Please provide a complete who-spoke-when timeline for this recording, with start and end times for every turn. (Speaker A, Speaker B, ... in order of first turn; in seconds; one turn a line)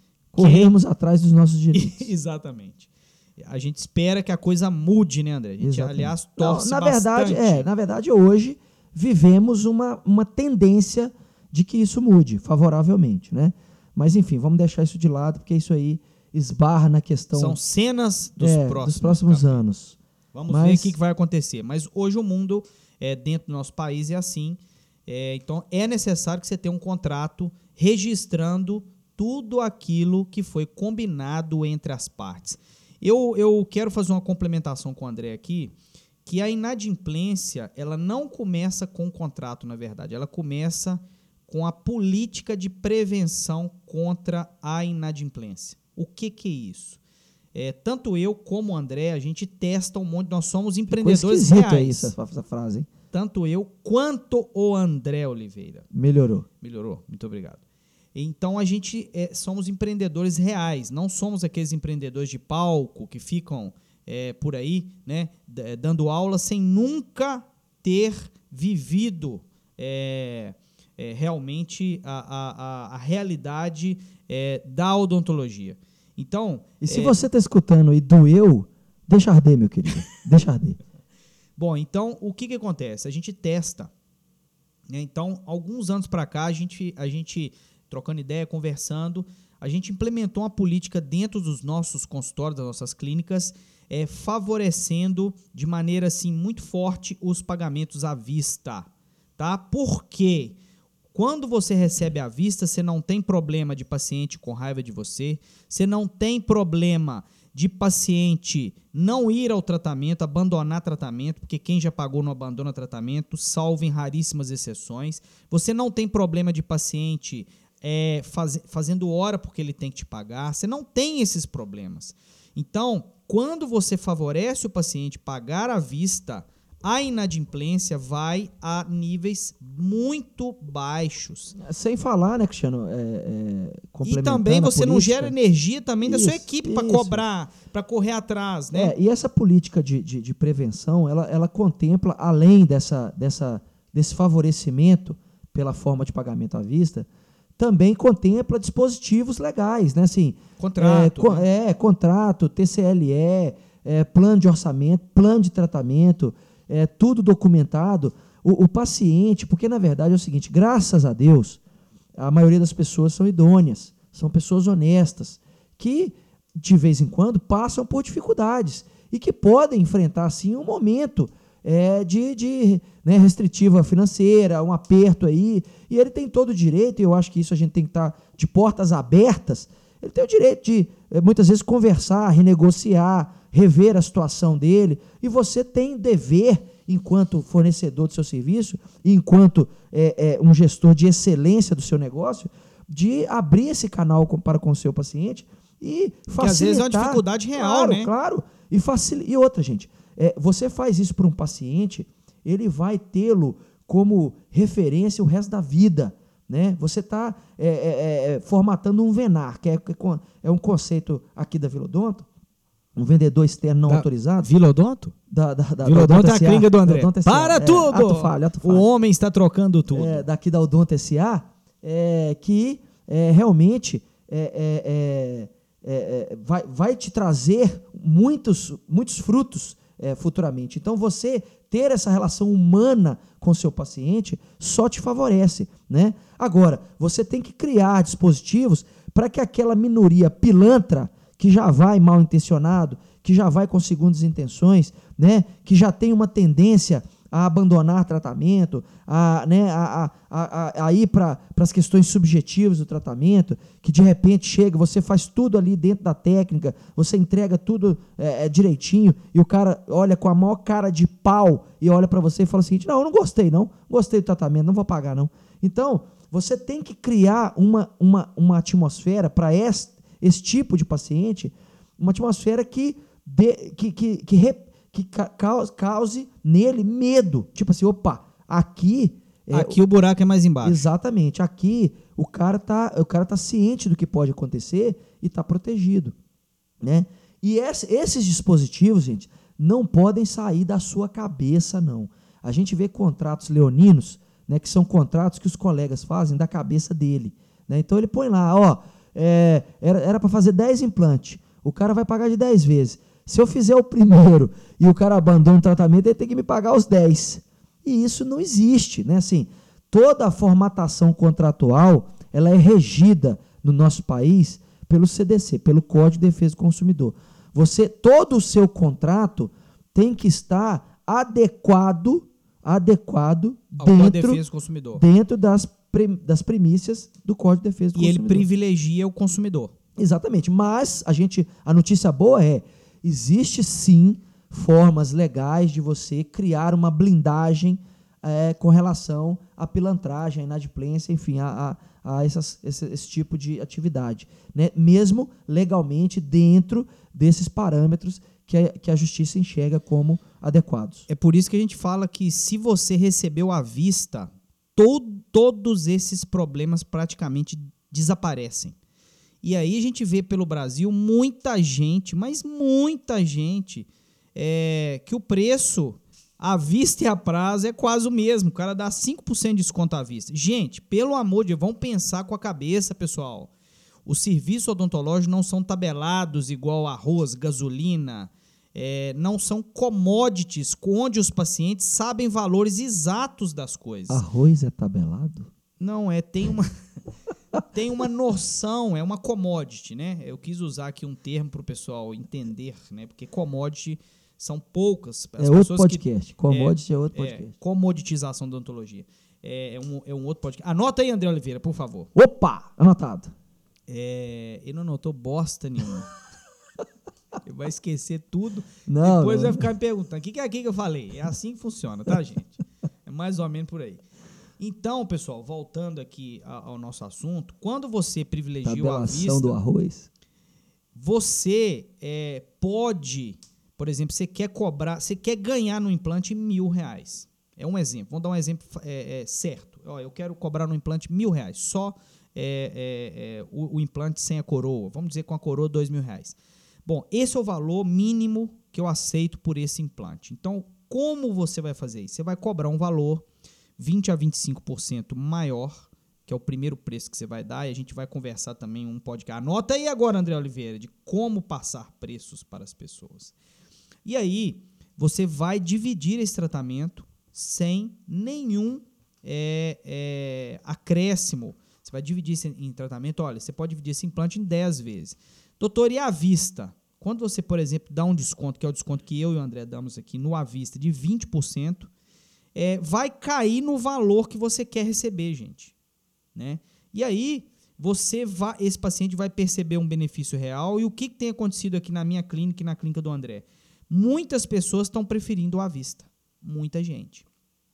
Speaker A: 0.3-2.1
Speaker B: 0.4-0.7
Speaker B: 1.7-7.7
Speaker A: 5.6-17.6
Speaker B: 17.3-19.6
Speaker A: 18.4-20.9
Speaker B: 20.3-35.7
Speaker B: 36.2-47.0
Speaker B: 47.5-52.1
Speaker A: 50.9-52.9
Speaker B: 53.1-55.9
Speaker A: 55.9-56.5
Speaker B: 56.6-57.6
Speaker B: 58.1-77.2
Speaker A: 76.8-80.8
Speaker B: 81.6-83.9
Speaker B: 84.9-100.6
Speaker B: 101.1-131.6
Speaker A: 131.6-135.3
Speaker B: 134.1-138.9
Speaker A: 136.0-137.2
Speaker A: 138.7-147.1
Speaker A: 147.6-161.6
Speaker B: 150.6-151.5
Speaker A: 162.2-212.3
Speaker B: 196.4-198.1
Speaker A: 212.9-214.5
Speaker B: 213.9-215.1
Speaker A: 215.3-218.9
Speaker B: 215.8-220.2
Speaker A: 219.9-279.8
Speaker B: 279.5-280.8
Speaker A: 280.6-286.1
Speaker A: 286.8-324.4
Speaker B: 323.8-325.0
Speaker A: 325.0-328.5
Speaker B: 327.9-329.7
Speaker A: 330.0-351.1
Speaker B: 351.1-358.8
Speaker B: 359.4-373.5
Speaker B: 374.1-384.2
Speaker A: 384.1-385.5
Speaker B: 385.8-386.7
Speaker B: 387.7-402.1
Speaker A: 395.4-397.5
Speaker A: 402.1-403.3
Speaker B: 403.9-406.1
Speaker B: 407.4-414.0
Speaker A: 408.9-409.7
Speaker B: 414.6-419.6
Speaker A: 418.6-420.1
Speaker B: 420.9-443.3
Speaker B: 443.8-453.3
Speaker B: 454.1-471.9
Speaker B: 472.6-475.7
Speaker B: 476.4-487.2